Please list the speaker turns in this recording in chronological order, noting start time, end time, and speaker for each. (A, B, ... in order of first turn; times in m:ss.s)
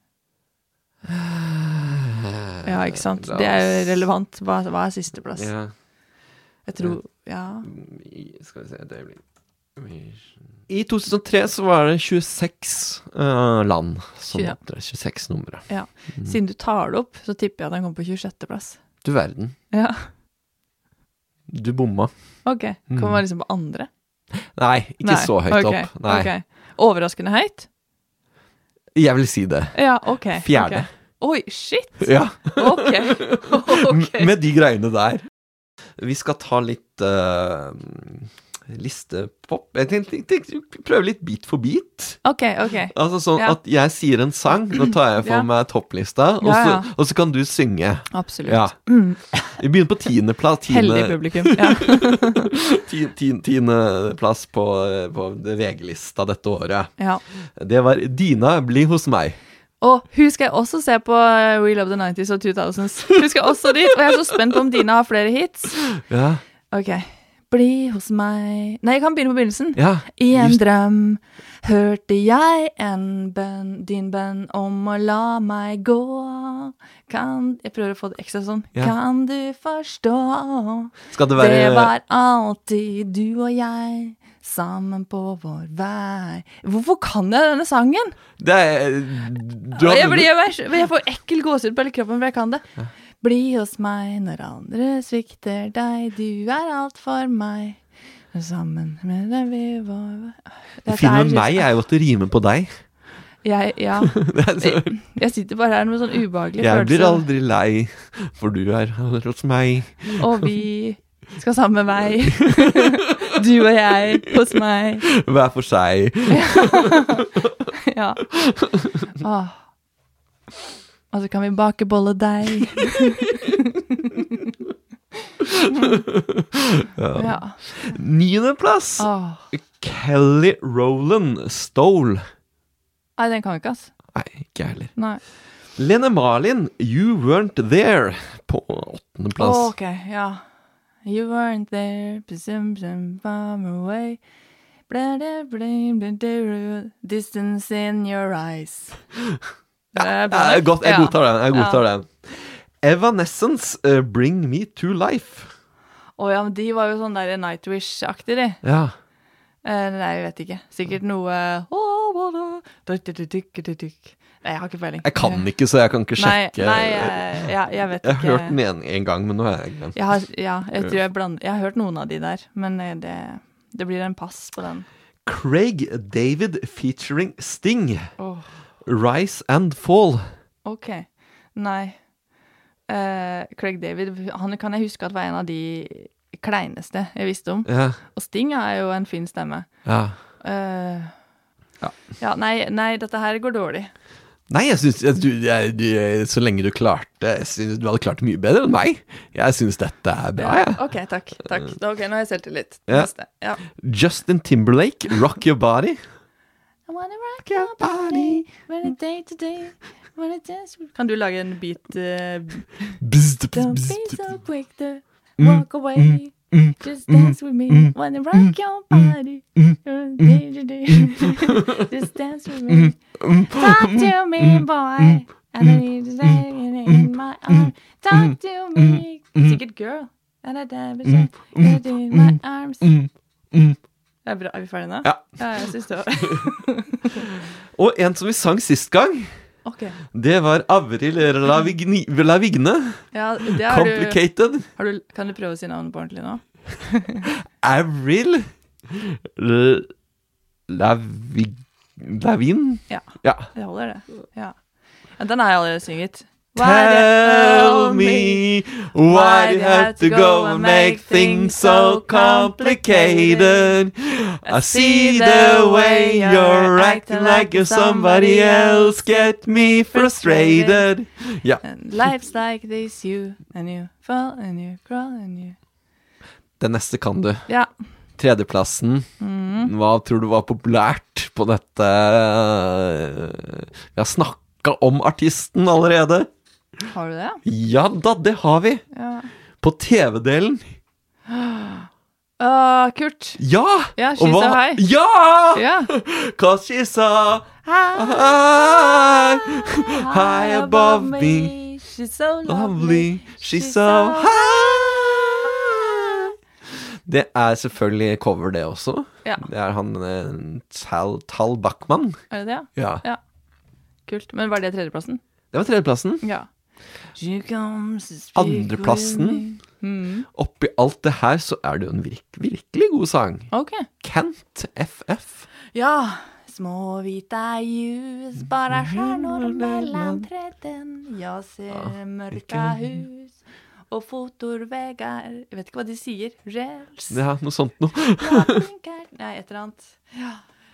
0:01.0-0:04.1 A
0:02.6-0:05.5 B
0:05.4-0:05.7 A
0:06.7-0:07.7 B
0:07.6-0:09.2 A
0:09.8-0:16.4 A
0:14.3-0:14.6 B
0:15.7-0:18.8 B
0:19.0-0:19.6 A
0:19.7-0:20.1 B
0:21.5-0:22.1 A
0:22.4-0:23.9 B
0:22.9-0:23.2 A
0:24.5-0:26.3 A
0:25.0-0:27.7 B
0:29.0-0:30.9 A
0:29.8-0:34.3 B
0:32.0-0:35.3 A
0:36.0-0:42.2 A
0:42.2-0:43.6 B
0:42.9-0:59.4 A
0:45.2-0:45.5 B
0:46.4-0:46.9 B
0:48.1-0:49.6 B
0:50.7-0:52.5 B
0:59.8-1:05.9 B
1:06.0-1:06.4 A
1:06.7-1:28.2 B
1:09.8-1:10.6 A
1:21.1-1:21.9 A
1:28.4-1:30.3 A
1:29.7-1:32.7 B
1:33.2-1:37.8 B
1:38.3-1:41.7 B
1:40.9-1:42.8 A
1:43.4-1:47.2 B
1:44.1-1:44.9 A
1:46.6-1:50.4 A
1:50.2-1:55.1 B
1:52.3-1:53.0 A
1:55.1-1:57.0 A
1:56.3-1:57.3 B
1:57.9-1:58.3 B
1:58.4-1:59.0 A
1:59.2-1:59.6 B
2:01.1-2:04.2 B
2:05.4-2:12.2 A
2:07.2-2:07.6 B
2:09.0-2:09.4 B
2:13.2-2:13.9 B
2:14.1-2:14.9 A
2:15.0-2:15.2 B
2:15.8-2:19.7 A
2:19.4-2:20.4 B
2:21.0-2:24.2 B
2:24.9-2:29.0 B
2:30.0-2:31.8 B
2:30.0-2:35.5 A
2:36.2-2:38.6 B
2:38.6-2:39.0 A
2:39.6-2:45.5 B
2:45.0-2:47.5 A
2:46.2-2:48.6 B
2:48.0-2:50.0 A
2:50.0-2:54.9 B
2:55.3-2:58.2 A
2:58.2-2:58.5 B
2:58.8-3:00.3 A
3:00.6-3:02.0 B
3:02.9-3:09.7 B
3:07.7-3:08.0 A
3:09.8-3:10.2 A
3:10.4-3:11.2 B
3:11.8-3:13.9 B
3:14.5-3:20.8 A
3:20.4-3:23.6 B
3:23.7-3:26.0 A
3:26.9-3:33.0 B
3:27.5-3:28.5 A
3:33.0-3:34.2 A
3:33.5-3:52.9 B
3:35.4-3:39.1 A
3:39.6-3:40.3 A
3:42.7-3:49.6 A
3:51.0-3:53.8 A
3:54.2-3:57.2 B
3:55.0-3:55.4 A
3:57.8-3:59.3 A
3:59.6-4:00.0 B
4:00.1-4:04.7 A
4:03.1-4:07.3 B
4:07.6-4:09.9 A
4:10.7-4:13.5 A
4:12.9-4:14.6 B
4:15.2-4:18.4 B
4:16.6-4:31.6 A
4:19.1-4:23.8 B
4:24.5-4:30.9 B
4:31.6-4:35.6 B
4:36.6-4:37.5 A
4:38.2-4:46.3 A
4:39.2-4:39.7 B
4:46.9-4:47.4 B
4:47.4-4:48.8 A
4:48.9-4:49.3 B
4:49.6-4:50.8 A
4:51.3-4:53.4 B
4:53.4-5:01.5 A
4:53.9-4:54.8 B
4:55.5-4:55.9 B
4:57.6-5:04.9 B
5:02.5-5:06.3 A
5:07.1-5:12.2 A
5:12.3-5:13.2 B
5:12.7-5:13.0 A
5:14.1-5:15.2 B
5:15.5-5:16.2 A
5:16.2-5:16.5 B
5:17.2-5:20.3 B
5:18.4-5:19.4 A
5:20.3-5:25.5 A
5:23.5-5:23.9 B
5:25.7-5:33.4 B
5:28.7-5:30.2 A
5:31.7-5:32.8 A
5:33.9-5:37.2 B
5:37.1-5:38.6 A
5:38.2-5:40.4 B